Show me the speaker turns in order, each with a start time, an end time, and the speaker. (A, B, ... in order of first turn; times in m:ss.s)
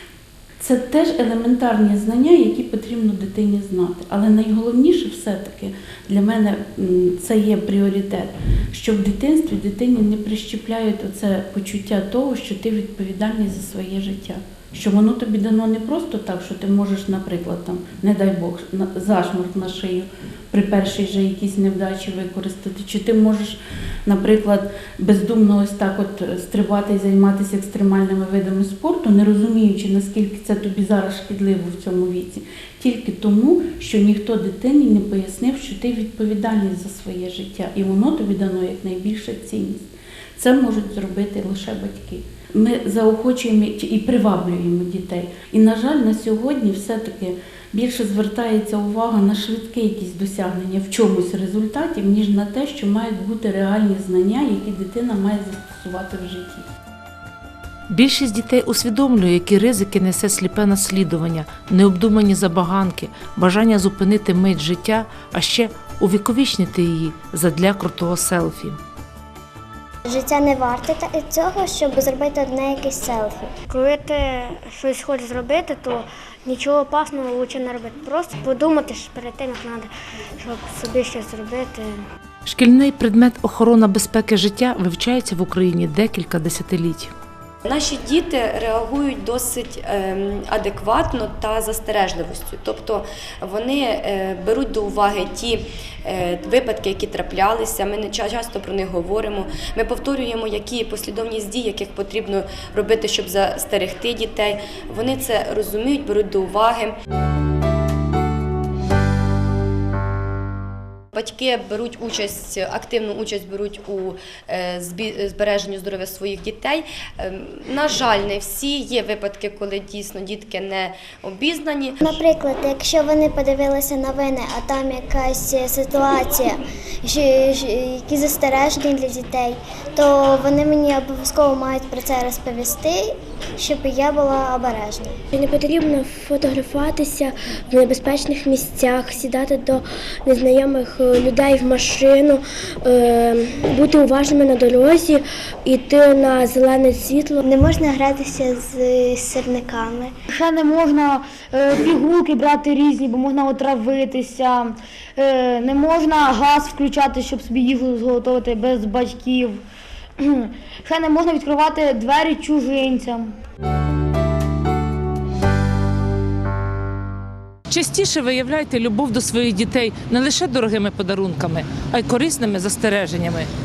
0:00.6-0:39.8 A
0:40.4-0:56.6 A
0:57.9-1:08.8 B
1:10.0-1:13.5 C
1:13.7-1:22.0 D
1:22.4-1:27.1 B
1:27.6-1:47.0 E
1:51.1-2:02.1 E
2:02.0-2:15.2 C
2:15.3-2:27.4 F
2:27.4-2:30.1 C
2:30.3-2:39.6 G
2:40.2-2:43.3 G
2:47.7-2:53.5 H
2:48.0-2:48.5 B
2:49.2-2:50.0 B